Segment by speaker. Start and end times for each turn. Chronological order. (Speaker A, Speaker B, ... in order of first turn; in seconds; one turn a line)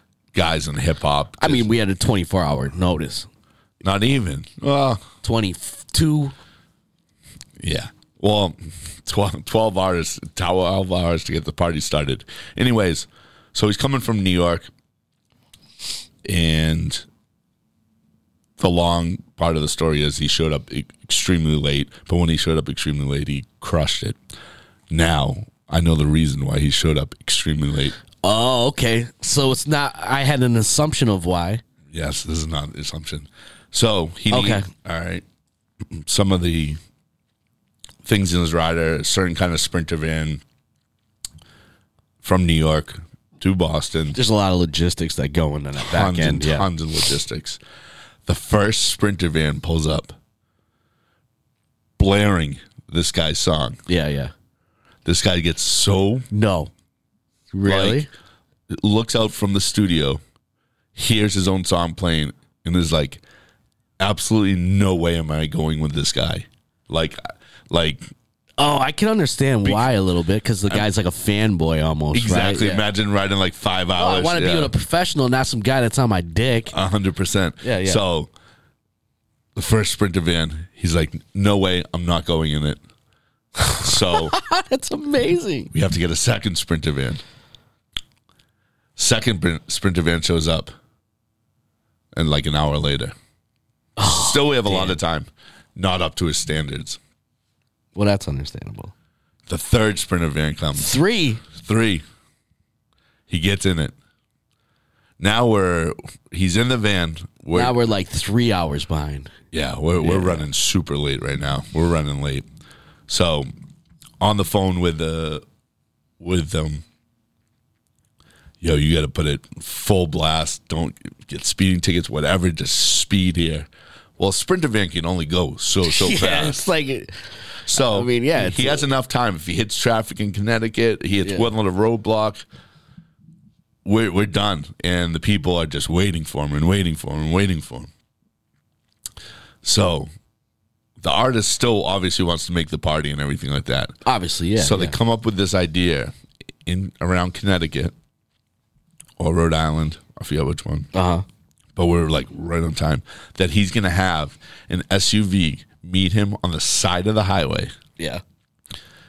Speaker A: 0.3-1.7
Speaker B: 1.4-3.3
Speaker A: 3.8-5.0
Speaker B: 5.2-6.3
Speaker A: 7.6-14.7
Speaker A: 16.2-17.1
Speaker A: 18.6-24.2
Speaker A: 24.9-28.0
Speaker B: 28.2-31.6
Speaker A: 31.9-35.2
Speaker B: 34.3-34.7
Speaker A: 35.9-36.8
Speaker A: 38.0-40.4
Speaker A: 42.2-44.2
Speaker B: 44.1-46.7
Speaker A: 45.8-47.6
Speaker A: 48.3-50.2
Speaker A: 52.0-53.8
Speaker B: 53.9-54.3
Speaker A: 55.0-56.3
Speaker B: 56.3-56.7
Speaker B: 57.5-58.1
Speaker A: 57.6-58.1
Speaker A: 58.7-60.2
Speaker A: 61.0-63.2
Speaker A: 64.0-68.1
Speaker B: 68.6-72.9
Speaker A: 69.6-69.9
Speaker A: 72.1-74.7
Speaker B: 74.0-76.7
Speaker A: 76.7-78.3
Speaker B: 77.6-78.0
Speaker A: 79.5-82.8
Speaker B: 83.7-85.7
Speaker A: 83.8-84.4
Speaker A: 85.7-87.2
Speaker A: 89.0-90.7
Speaker A: 92.1-93.2
Speaker B: 94.0-95.0
Speaker A: 94.0-97.0
Speaker B: 98.0-98.9
Speaker A: 99.5-100.9
Speaker B: 100.8-101.4
Speaker A: 101.5-102.0
Speaker A: 103.3-104.0
Speaker A: 105.2-107.8
Speaker B: 107.5-109.3
Speaker A: 109.5-112.5
Speaker B: 110.0-110.5
Speaker A: 113.1-113.5
Speaker A: 114.2-115.5
Speaker A: 116.2-116.8
Speaker A: 118.6-126.7
Speaker B: 125.9-128.9
Speaker A: 127.7-132.4
Speaker B: 131.2-131.5
Speaker A: 133.8-137.9
Speaker A: 139.6-140.1
Speaker A: 141.0-143.9
Speaker B: 144.1-145.0
Speaker A: 144.6-146.1
Speaker A: 146.7-147.9
Speaker A: 149.2-150.9
Speaker B: 150.9-151.2
Speaker A: 151.8-157.7